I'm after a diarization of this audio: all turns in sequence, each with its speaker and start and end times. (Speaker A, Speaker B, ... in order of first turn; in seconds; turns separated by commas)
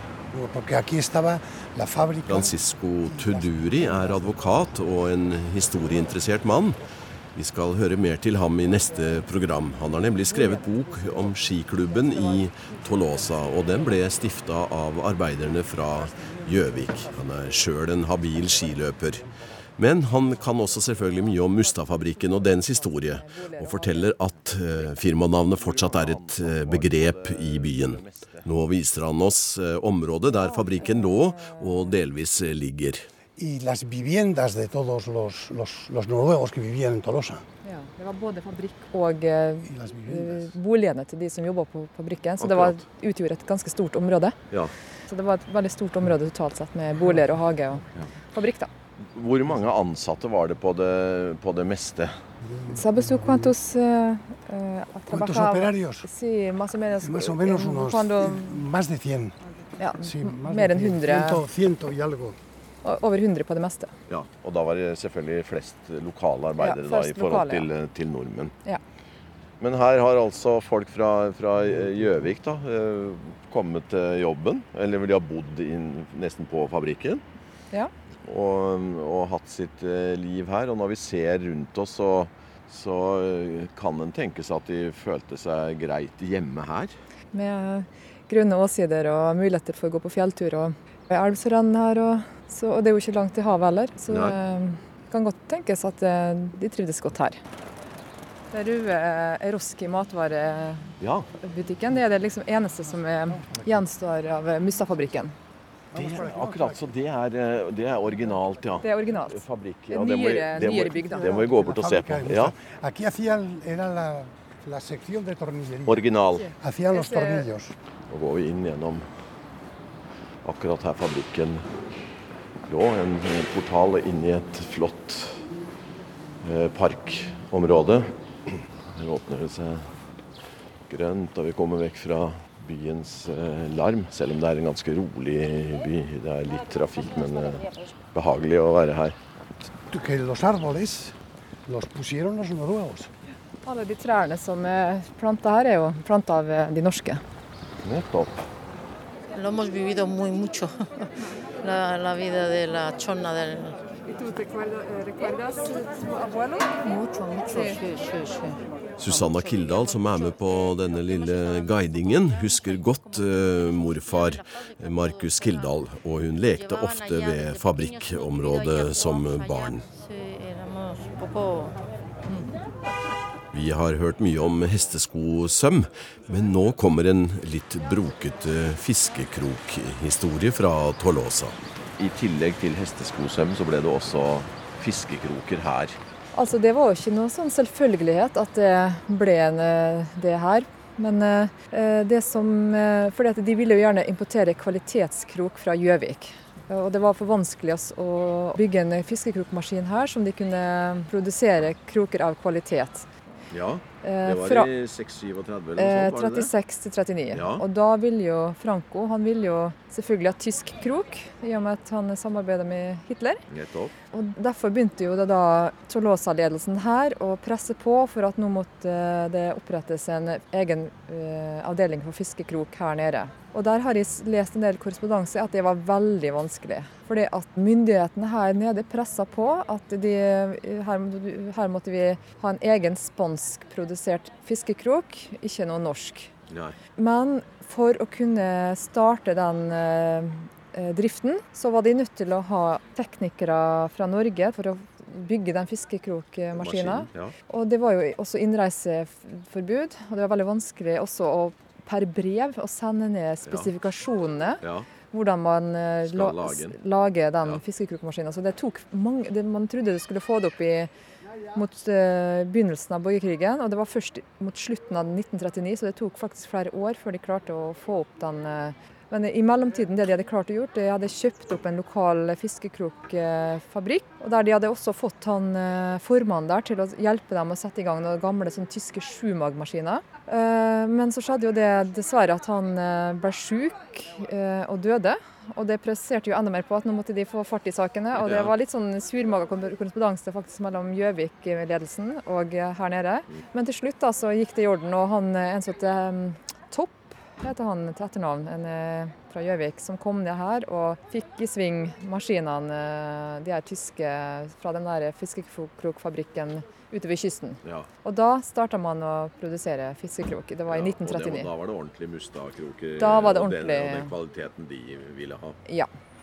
Speaker A: 0.3-2.5, Speaker B: 2.3-6.8, Speaker B: 7.3-19.2, Speaker B: 19.8-33.1, Speaker C: 21.4-24.2, Speaker D: 24.7-28.5, Speaker C: 30.3-31.9, Speaker A: 33.4-37.4, Speaker C: 37.6-44.4, Speaker A: 39.7-40.5, Speaker D: 42.4-42.8, Speaker C: 45.1-48.7, Speaker D: 49.1-52.2, Speaker A: 52.4-53.5, Speaker C: 52.7-58.7, Speaker A: 55.1-56.1, Speaker A: 57.0-59.4, Speaker C: 59.8-61.4, Speaker A: 59.9-62.4, Speaker C: 62.8-63.9, Speaker D: 64.1-68.5, Speaker C: 66.6-67.7, Speaker D: 69.6-77.2, Speaker D: 78.2-86.9, Speaker C: 87.3-97.4, Speaker D: 94.1-94.4, Speaker C: 98.5-105.3, Speaker D: 101.0-101.3, Speaker A: 103.4-103.7, Speaker A: 105.9-106.8, Speaker D: 105.9-112.5, Speaker C: 108.8-111.4, Speaker A: 111.0-116.0, Speaker D: 115.8-116.5, Speaker C: 116.3-117.5, Speaker A: 116.6-117.7, Speaker D: 118.1-119.1, Speaker D: 120.4-121.6, Speaker D: 122.7-125.4, Speaker D: 126.4-129.9, Speaker D: 130.9-139.2, Speaker A: 139.9-141.2, Speaker A: 141.7-143.1, Speaker C: 143.7-147.2, Speaker D: 147.8-148.4, Speaker E: 149.3-151.1, Speaker E: 151.6-153.8, Speaker C: 154.1-157.8, Speaker E: 157.3-165.6, Speaker B: 159.0-169.8, Speaker E: 166.6-172.5, Speaker B: 173.5-181.6, Speaker D: 182.0-186.0, Speaker C: 186.3-203.1, Speaker D: 203.5-206.5, Speaker C: 204.0-204.7, Speaker C: 205.8-213.4, Speaker D: 207.3-207.6, Speaker D: 213.5-213.9, Speaker C: 214.1-236.3, Speaker D: 236.5-236.8, Speaker C: 237.0-260.9, Speaker D: 246.5-247.3, Speaker D: 254.6-254.9, Speaker D: 256.0-256.8, Speaker C: 261.5-311.5, Speaker D: 288.1-288.5, Speaker D: 310.7-315.6, Speaker C: 313.0-314.1